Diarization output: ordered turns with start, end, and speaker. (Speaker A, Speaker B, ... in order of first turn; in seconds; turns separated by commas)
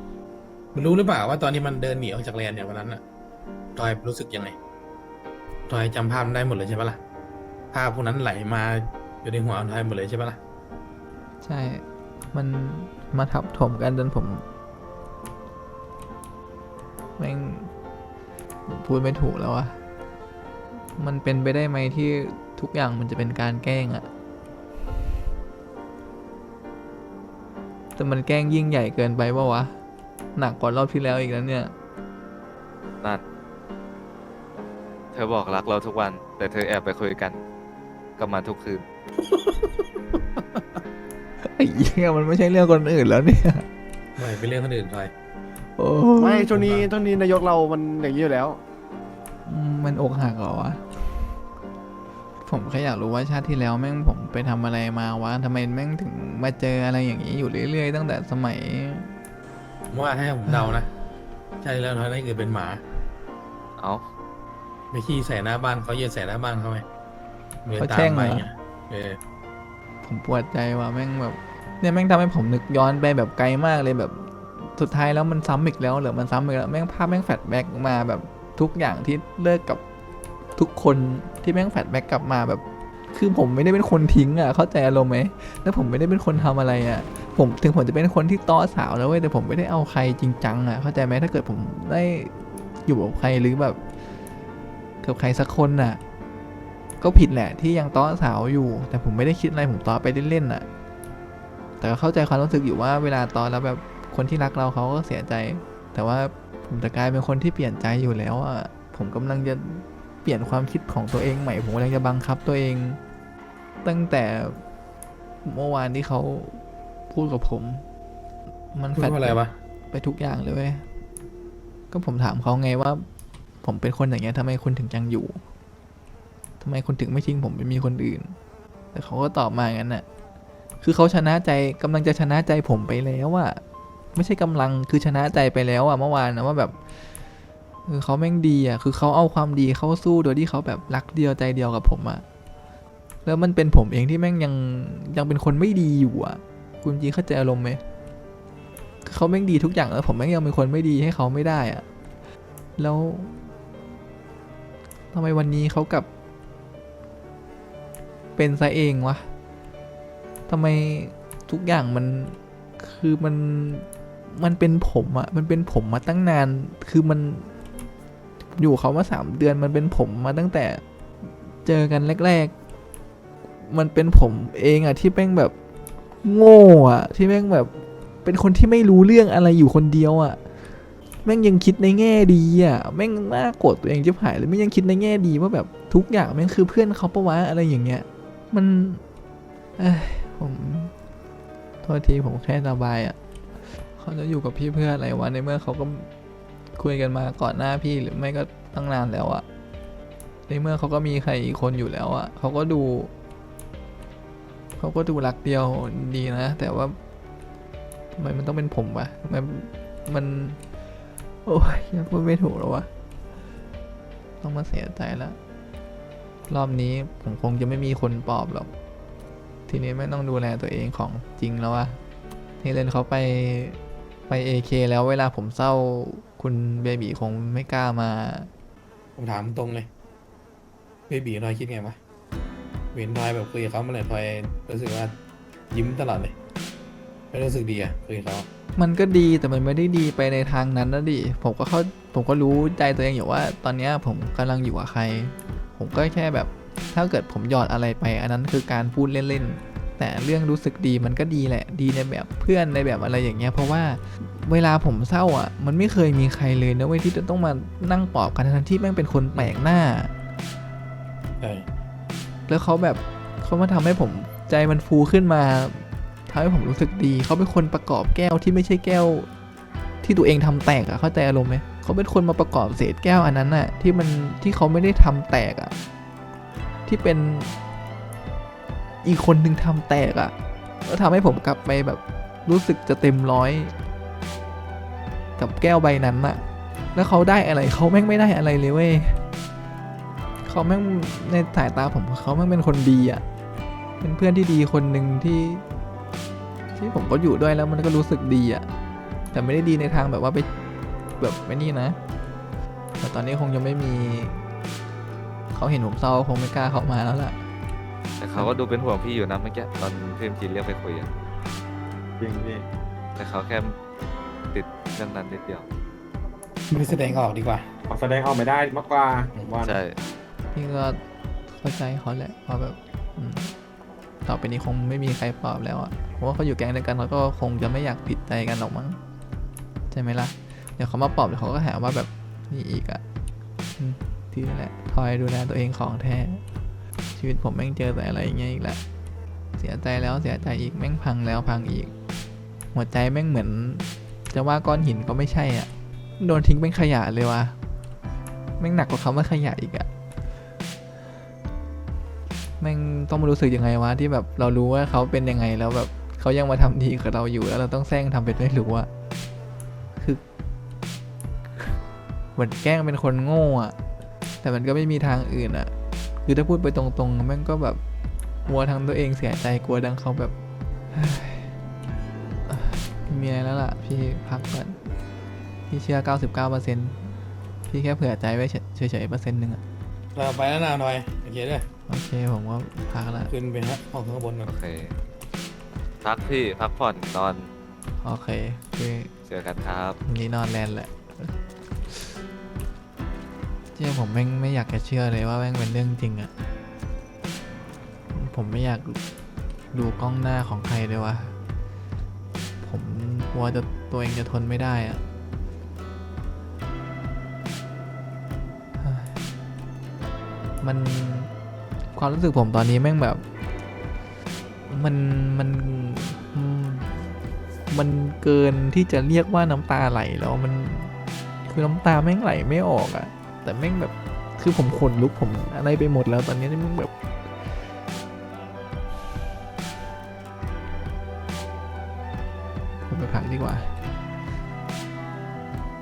Speaker A: 0.7-3.0, Speaker A: 3.7-4.5, Speaker A: 5.7-7.0, Speaker A: 7.7-10.4, Speaker B: 11.4-14.4, Speaker B: 17.2-17.7, Speaker B: 18.7-19.8, Speaker B: 21.0-24.1, Speaker B: 28.0-29.7, Speaker B: 30.4-31.7, Speaker C: 35.1-37.4, Speaker C: 38.2-38.8, Speaker B: 41.4-43.6, Speaker A: 44.1-45.1, Speaker B: 45.8-46.5, Speaker D: 46.2-48.6, Speaker A: 46.5-46.9, Speaker B: 49.5-50.8, Speaker B: 52.4-59.2, Speaker A: 59.9-60.9, Speaker A: 61.6-62.8, Speaker C: 63.8-64.0, Speaker A: 64.9-66.8, Speaker A: 67.6-69.2, Speaker B: 67.8-68.5, Speaker B: 70.0-79.8, Speaker B: 80.5-93.8, Speaker B: 95.0-96.0, Speaker B: 97.0-100.7, Speaker B: 101.8-113.0, Speaker B: 113.8-114.6, Speaker B: 115.4-117.8, Speaker B: 118.7-119.4, Speaker A: 119.0-119.5, Speaker B: 119.9-120.8, Speaker B: 121.9-123.0, Speaker B: 123.6-125.4, Speaker B: 126.6-128.3, Speaker B: 128.9-130.0, Speaker B: 130.8-133.6, Speaker B: 134.1-136.7, Speaker B: 137.9-142.2, Speaker B: 143.2-147.8, Speaker B: 149.0-151.8, Speaker B: 152.8-153.5, Speaker B: 155.1-156.1, Speaker B: 158.4-159.3, Speaker B: 160.5-167.5, Speaker B: 168.6-172.5, Speaker B: 173.6-175.5, Speaker B: 176.2-180.4, Speaker B: 181.2-189.0, Speaker B: 189.8-190.9, Speaker B: 191.8-193.2, Speaker B: 194.0-196.1, Speaker B: 196.8-199.4, Speaker B: 200.5-203.1, Speaker B: 204.8-206.9, Speaker B: 208.2-210.6, Speaker B: 211.4-212.9, Speaker B: 214.4-215.4, Speaker B: 216.5-218.7, Speaker B: 219.7-222.0, Speaker B: 222.6-228.5, Speaker A: 229.2-229.9, Speaker A: 231.1-232.0, Speaker A: 232.9-235.1, Speaker A: 235.7-236.3, Speaker A: 237.3-238.5, Speaker B: 238.8-260.1, Speaker A: 261.4-261.6, Speaker B: 262.5-269.3, Speaker B: 270.0-275.7, Speaker B: 276.9-277.6, Speaker B: 279.0-280.3, Speaker B: 280.8-283.7, Speaker B: 285.4-286.4, Speaker B: 286.9-289.2, Speaker B: 290.4-293.2, Speaker B: 294.0-295.6, Speaker B: 296.8-298.6, Speaker B: 299.3-300.5, Speaker B: 301.2-302.0, Speaker B: 303.0-304.4, Speaker B: 305.5-307.4, Speaker C: 308.2-311.1, Speaker E: 312.2-312.6, Speaker C: 313.1-313.7, Speaker C: 314.5-315.6, Speaker A: 316.7-317.7, Speaker E: 317.9-319.7, Speaker C: 319.6-319.9, Speaker B: 320.5-321.0, Speaker B: 321.5-323.5, Speaker B: 324.2-329.0, Speaker B: 329.9-333.0, Speaker B: 333.8-336.4, Speaker B: 337.1-338.8, Speaker B: 339.6-341.9, Speaker B: 342.7-347.6, Speaker B: 348.6-349.9, Speaker B: 352.6-358.9, Speaker B: 360.0-360.2, Speaker B: 362.4-363.7, Speaker B: 364.4-365.7, Speaker B: 366.2-367.8, Speaker B: 368.4-370.3, Speaker B: 370.9-371.5, Speaker B: 372.5-374.8, Speaker B: 375.7-377.1, Speaker B: 377.7-379.6, Speaker A: 380.1-381.7, Speaker B: 381.9-383.3, Speaker A: 383.3-384.5, Speaker C: 384.5-384.9, Speaker C: 386.0-387.5, Speaker B: 388.0-389.1, Speaker C: 389.3-390.0, Speaker B: 390.0-391.3, Speaker B: 391.9-392.1, Speaker B: 393.7-396.3, Speaker B: 398.1-399.0, Speaker B: 399.7-401.3, Speaker B: 402.6-405.0, Speaker B: 408.8-409.2, Speaker B: 410.6-411.3, Speaker B: 411.9-413.2, Speaker B: 414.7-417.1, Speaker B: 417.7-420.9, Speaker B: 421.4-426.9, Speaker B: 432.9-433.8